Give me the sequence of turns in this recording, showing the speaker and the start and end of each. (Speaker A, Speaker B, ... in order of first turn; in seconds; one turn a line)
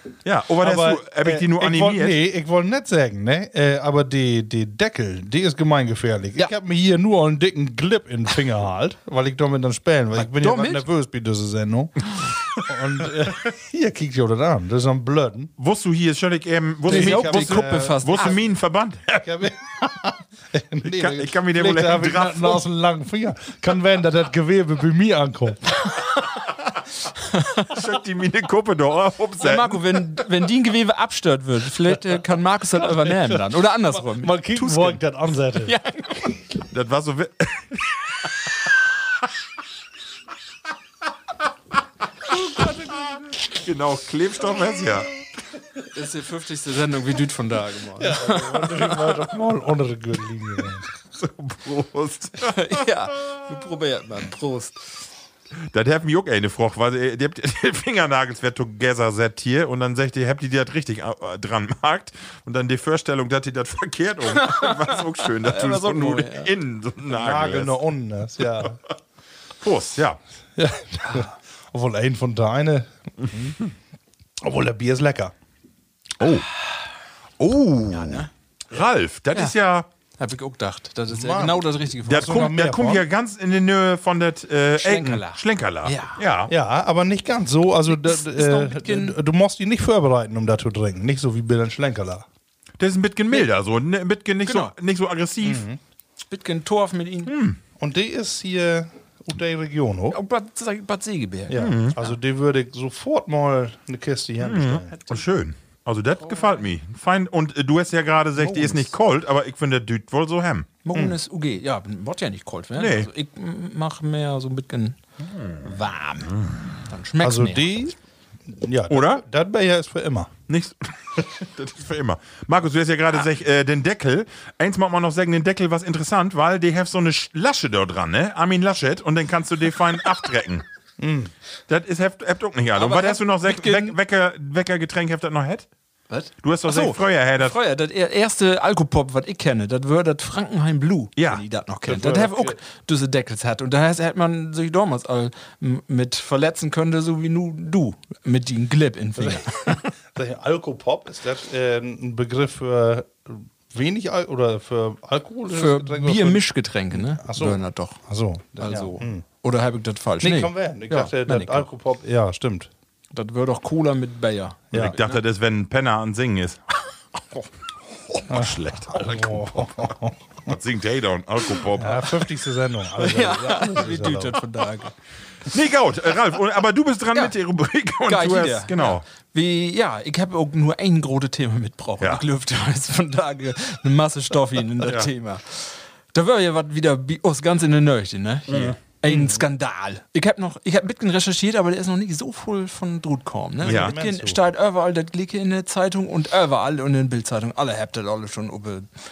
Speaker A: 0.2-2.2
Speaker B: 0.6-15.5
Speaker C: 10.2-10.9
Speaker A: 15.6-19.3
Speaker C: 16.9-18.4
Speaker B: 16.9-18.4
Speaker B: 19.1-25.8
Speaker A: 20.9-22.6
Speaker C: 27.3-27.7
Speaker A: 27.7-30.0
Speaker C: 29.4-35.0
Speaker B: 32.8-33.4
Speaker B: 34.0-35.7
Speaker C: 35.6-36.3
Speaker A: 36.7-37.9
Speaker A: 43.5-45.1
Speaker C: 45.9-49.2
Speaker B: 48.0-50.9
Speaker A: 51.2-52.7
Speaker C: 52.4-55.0
Speaker A: 55.7-67.8
Speaker C: 64.3-66.5
Speaker B: 67.1-68.8
Speaker A: 69.6-70.2
Speaker B: 70.6-73.6
Speaker B: 74.4-75.3
Speaker A: 76.2-76.5
Speaker A: 77.4-79.9
Speaker C: 77.9-78.3
Speaker C: 80.2-82.5
Speaker B: 81.1-83.0
Speaker A: 82.1-86.5
Speaker C: 84.8-86.2
Speaker B: 86.5-92.3
Speaker C: 87.9-89.2
Speaker A: 92.8-95.7
Speaker C: 94.5-94.7
Speaker B: 95.4-95.8
Speaker C: 96.3-97.3
Speaker A: 97.3-97.6
Speaker B: 97.8-100.2
Speaker C: 100.1-102.1
Speaker B: 101.5-104.9
Speaker A: 101.5-102.0
Speaker A: 104.4-110.7
Speaker C: 106.2-106.7
Speaker C: 108.4-108.9
Speaker C: 110.8-115.0
Speaker A: 112.8-113.1
Speaker A: 115.4-115.6
Speaker C: 115.6-117.9
Speaker B: 117.2-118.0
Speaker B: 118.5-120.3
Speaker A: 118.9-119.2
Speaker A: 120.5-130.7
Speaker B: 131.0-131.3
Speaker A: 131.7-135.7
Speaker C: 132.8-134.0
Speaker C: 136.1-149.9
Speaker A: 136.4-137.6
Speaker A: 141.2-141.4
Speaker B: 141.9-142.6
Speaker B: 149.2-149.5
Speaker B: 150.1-159.2
Speaker C: 155.5-158.0
Speaker C: 158.6-161.7
Speaker B: 160.2-162.7
Speaker C: 163.1-165.2
Speaker A: 164.8-166.6
Speaker A: 168.1-169.9
Speaker B: 168.3-170.5
Speaker A: 170.5-172.2
Speaker B: 171.8-174.4
Speaker C: 173.0-174.9
Speaker A: 175.5-179.0
Speaker C: 178.1-198.9
Speaker A: 184.8-185.1
Speaker A: 188.5-188.8
Speaker B: 189.1-189.3
Speaker B: 193.6-194.4
Speaker A: 193.6-193.9